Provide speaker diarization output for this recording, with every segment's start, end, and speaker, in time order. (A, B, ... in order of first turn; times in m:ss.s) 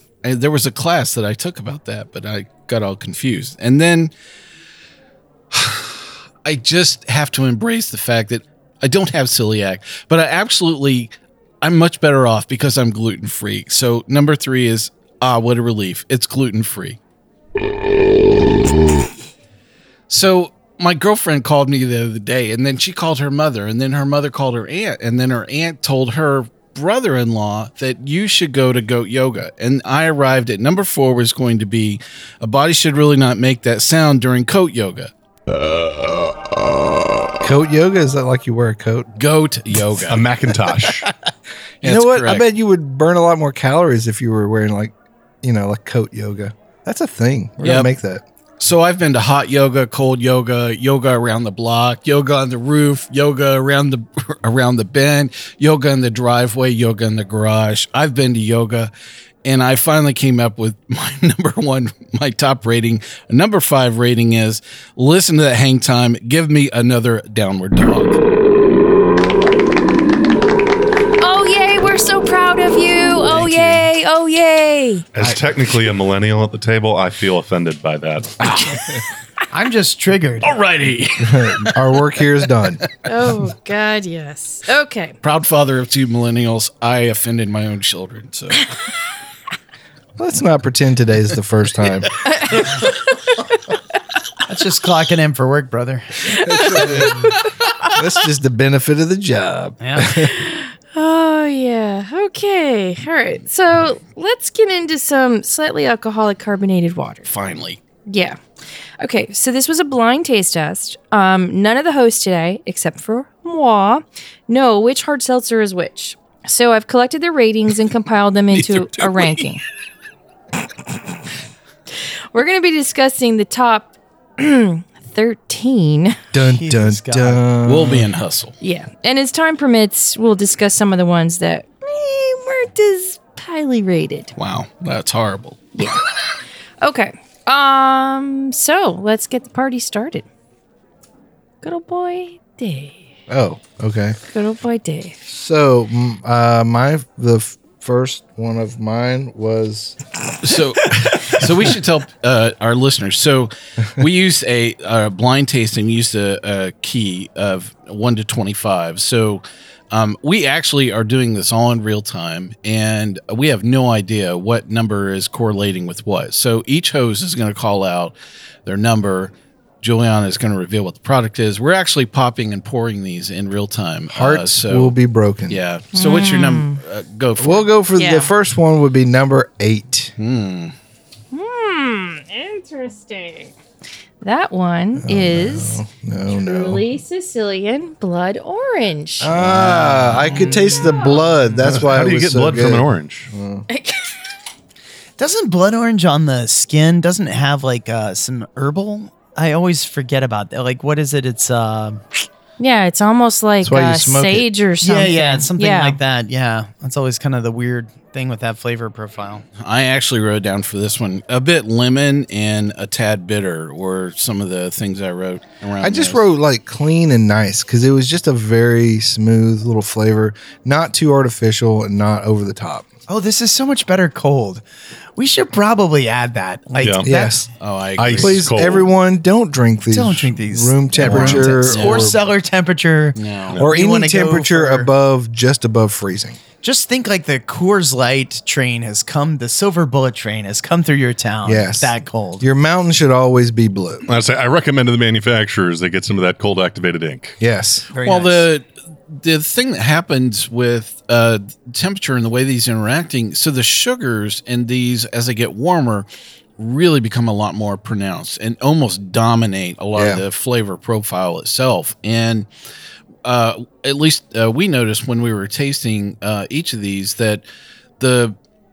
0:00.2-0:04.1 A
0:05.5-0:17.0 A
0:20.1-0:35.1 A
0:35.9-0:36.3 B
0:37.4-0:39.1 C
0:39.2-0:40.2 A
0:40.1-0:41.1 B
0:41.8-0:42.4 A
0:41.8-0:48.2 C
0:47.6-0:47.9 A
0:48.6-0:58.9 A
0:59.4-1:08.2 A
1:11.2-1:15.0 D
1:13.3-1:13.8 A
1:15.1-1:18.7 B
1:18.4-1:18.9 A
1:19.5-1:20.6 E
1:20.4-1:21.8 A
1:21.2-1:22.8 C
1:23.0-1:25.1 D
1:25.2-1:28.7 A
1:30.2-1:32.1 C
1:32.3-1:32.9 D
1:34.5-1:36.9 E
1:36.4-1:37.3 C
1:37.9-1:40.3 C
1:39.8-1:40.1 E
1:40.2-1:47.3 D
1:47.2-1:47.8 A
1:48.1-1:48.4 D
1:49.0-1:59.6 D
1:58.5-1:59.4 A
2:02.3-2:06.2 D
2:06.3-2:08.1 C
2:06.4-2:07.4 E
2:07.6-2:08.5 A
2:08.6-2:14.3 D
2:14.4-2:15.6 A
2:15.8-2:16.0 D
2:16.8-2:20.2 D
2:21.6-2:23.0 D
2:23.3-2:24.2 C
2:24.3-2:25.2 D
2:25.3-2:30.0 C
2:30.4-2:48.1 A
2:48.6-2:54.9 A
2:54.1-2:55.6 C
2:55.5-2:57.7 A
2:55.9-2:56.8 D
2:57.4-3:00.1 C
2:58.0-2:58.3 D
3:00.2-3:00.7 A
3:01.3-3:03.5 D
3:04.2-3:09.3 D
3:05.0-3:06.8 C
3:09.2-3:13.6 C
3:09.4-3:10.4 A
3:10.6-3:11.2 D
3:11.6-3:13.3 B
3:13.7-3:14.1 D
3:15.2-3:22.0 E
3:22.6-3:26.0 D
3:23.6-3:24.5 C
3:24.8-3:29.4 E
3:29.6-3:36.2 A
3:35.8-3:42.9 C
3:43.1-3:44.6 E
3:45.2-3:47.5 E
3:46.8-3:47.1 B
3:47.0-3:47.5 C
3:47.6-3:48.5 A
3:48.0-3:48.9 B
3:48.1-3:52.2 C
3:49.9-3:54.9 E
3:51.0-3:52.2 A
3:53.2-3:53.6 A
3:53.6-3:56.4 C
3:56.6-4:02.5 E
4:01.4-4:04.0 C
4:04.1-4:07.4 B
4:07.4-4:07.9 C
4:07.9-4:08.5 E
4:08.0-4:16.0 A
4:16.6-4:22.5 A
4:19.9-4:20.2 C
4:23.2-4:27.4 A
4:28.0-4:28.4 A